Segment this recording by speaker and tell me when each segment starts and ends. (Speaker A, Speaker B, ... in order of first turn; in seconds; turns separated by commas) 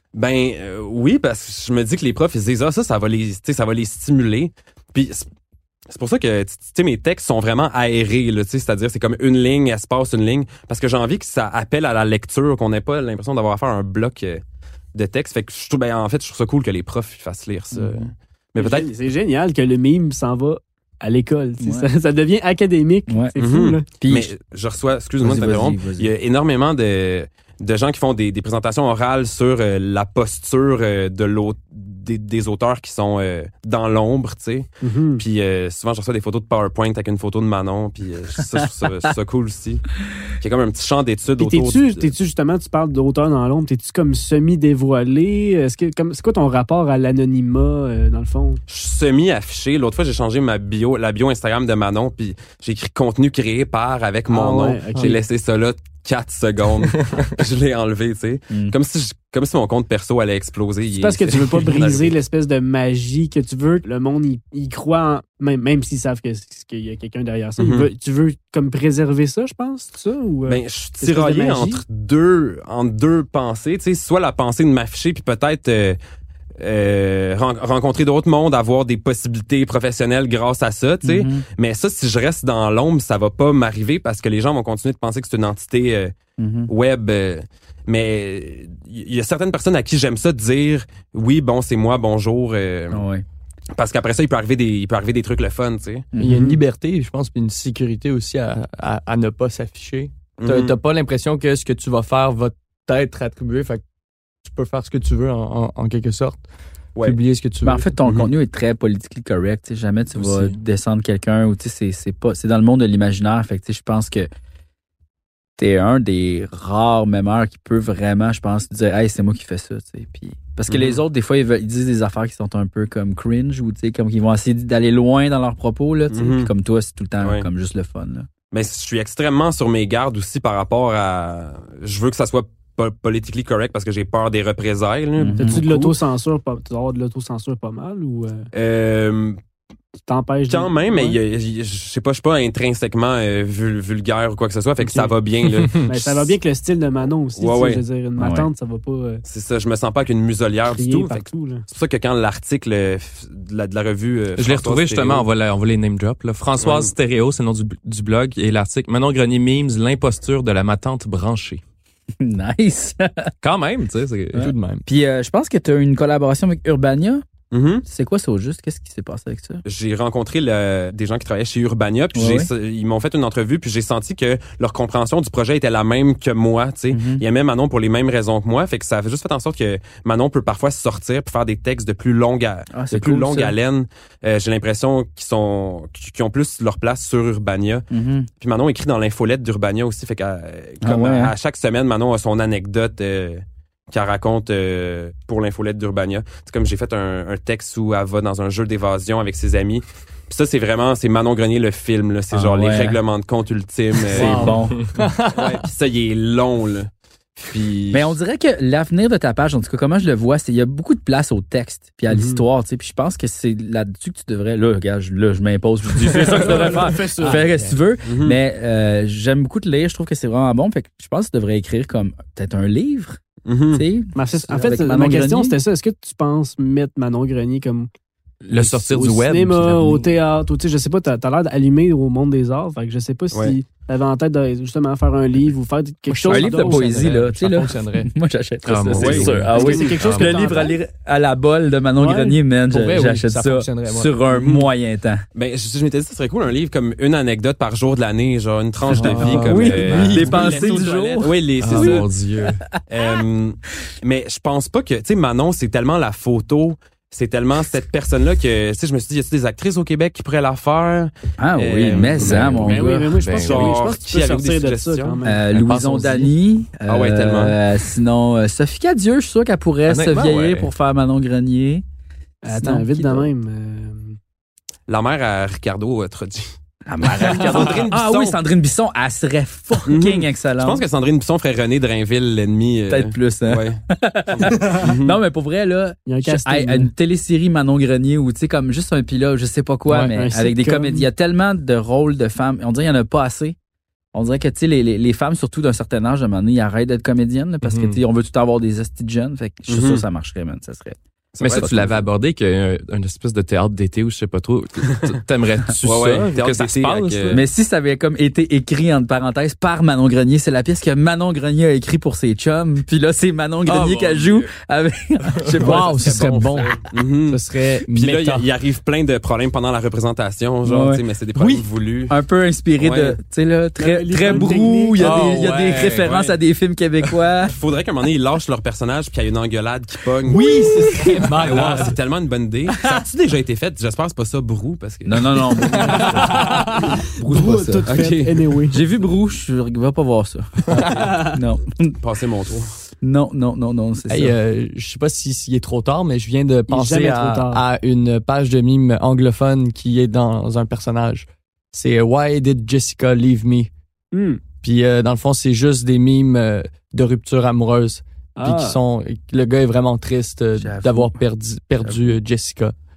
Speaker A: 0.1-5.2, Speaker A: 5.9-14.4, Speaker A: 14.9-18.9, Speaker B: 17.7-18.1, Speaker C: 18.6-23.8, Speaker B: 21.6-21.9, Speaker B: 23.1-23.3, Speaker A: 23.4-42.1, Speaker B: 24.0-24.3, Speaker B: 25.2-26.1, Speaker C: 34.8-35.2, Speaker C: 41.4-48.6, Speaker A: 48.7-62.1, Speaker C: 54.3-55.2, Speaker C: 60.9-71.8, Speaker A: 67.6-67.9, Speaker A: 70.5-76.0, Speaker A: 76.6-86.1, Speaker B: 81.0-81.4, Speaker B: 86.4-86.7, Speaker A: 86.7-93.0, Speaker B: 92.9-93.2, Speaker A: 93.8-96.1, Speaker B: 96.1-96.6, Speaker D: 96.2-103.8, Speaker A: 100.4-100.7, Speaker D: 104.4-106.4, Speaker D: 107.0-107.9, Speaker B: 107.6-114.3, Speaker E: 110.2-110.5, Speaker B: 115.6-128.3, Speaker A: 120.7-121.0, Speaker A: 126.1-126.5, Speaker A: 127.2-127.5, Speaker A: 128.5-135.9, Speaker B: 135.2-135.6, Speaker C: 135.4-138.5, Speaker A: 138.5-139.4, Speaker C: 140.1-141.2, Speaker A: 140.5-146.3, Speaker C: 144.8-145.1, Speaker C: 145.8-149.2, Speaker A: 147.4-147.8, Speaker B: 148.2-148.5, Speaker A: 149.2-155.2, Speaker C: 150.7-151.6, Speaker E: 154.4-161.6, Speaker A: 156.6-156.9, Speaker B: 162.2-163.3, Speaker E: 163.4-164.8, Speaker B: 164.3-167.2, Speaker A: 167.5-167.8, Speaker B: 167.8-169.6, Speaker A: 169.6-187.8, Speaker B: 172.1-172.5, Speaker B: 176.9-177.2, Speaker B: 182.7-183.5, Speaker B: 187.9-188.3, Speaker A: 188.4-204.5, Speaker B: 190.8-191.3, Speaker B: 202.3-203.0, Speaker B: 204.1-204.9, Speaker D: 204.1-205.6, Speaker A: 205.3-208.1, Speaker B: 207.9-223.2, Speaker C: 212.1-212.4, Speaker C: 216.2-217.5, Speaker D: 216.2-217.8, Speaker A: 218.1-218.4, Speaker A: 223.4-223.8, Speaker B: 223.7-225.6, Speaker C: 224.1-227.9, Speaker E: 228.4-230.1, Speaker C: 228.5-237.0, Speaker D: 236.1-238.1, Speaker B: 236.3-245.2, Speaker E: 238.7-240.5, Speaker A: 238.9-239.8, Speaker C: 239.5-240.8, Speaker C: 242.0-242.4, Speaker D: 242.7-244.1, Speaker A: 244.3-244.7, Speaker A: 245.3-252.1, Speaker E: 248.9-252.6, Speaker D: 248.9-250.6, Speaker C: 249.4-250.1, Speaker B: 250.1-252.5, Speaker A: 252.9-262.6, Speaker B: 261.4-263.1, Speaker E: 261.8-263.8, Speaker C: 262.6-265.4, Speaker A: 263.4-265.2, Speaker B: 265.2-271.8, Speaker A: 266.9-267.6, Speaker E: 269.9-270.7, Speaker C: 272.4-274.2, Speaker B: 272.5-273.3, Speaker A: 274.9-276.6, Speaker B: 276.9-280.8, Speaker A: 277.2-278.4, Speaker A: 279.9-283.8, Speaker B: 282.9-293.6, Speaker A: 284.3-285.2, Speaker C: 286.1-286.9, Speaker C: 289.9-291.1, Speaker B: 294.1-301.8, Speaker E: 297.6-298.0, Speaker A: 299.7-300.0, Speaker A: 301.3-301.9, Speaker E: 301.4-307.4, Speaker A: 305.8-307.4, Speaker B: 307.3-316.7, Speaker E: 313.6-314.5, Speaker E: 315.3-315.9, Speaker D: 315.6-318.4, Speaker A: 315.8-322.2, Speaker B: 320.6-321.0, Speaker B: 322.1-327.5, Speaker A: 322.8-323.2, Speaker C: 323.8-325.3, Speaker E: 325.0-326.4, Speaker A: 327.5-330.5, Speaker B: 330.3-331.4, Speaker D: 330.3-331.9, Speaker A: 331.4-335.4, Speaker B: 335.0-336.6, Speaker D: 335.6-336.8, Speaker B: 337.1-338.0, Speaker C: 337.2-338.8, Speaker A: 337.9-338.5, Speaker B: 338.7-342.0, Speaker C: 341.0-341.4, Speaker A: 342.0-342.8, Speaker B: 343.0-344.4, Speaker D: 344.1-353.7, Speaker C: 346.7-347.6, Speaker C: 354.1-354.4, Speaker D: 354.6-362.7, Speaker C: 358.4-358.8, Speaker B: 360.6-361.1, Speaker B: 361.8-362.2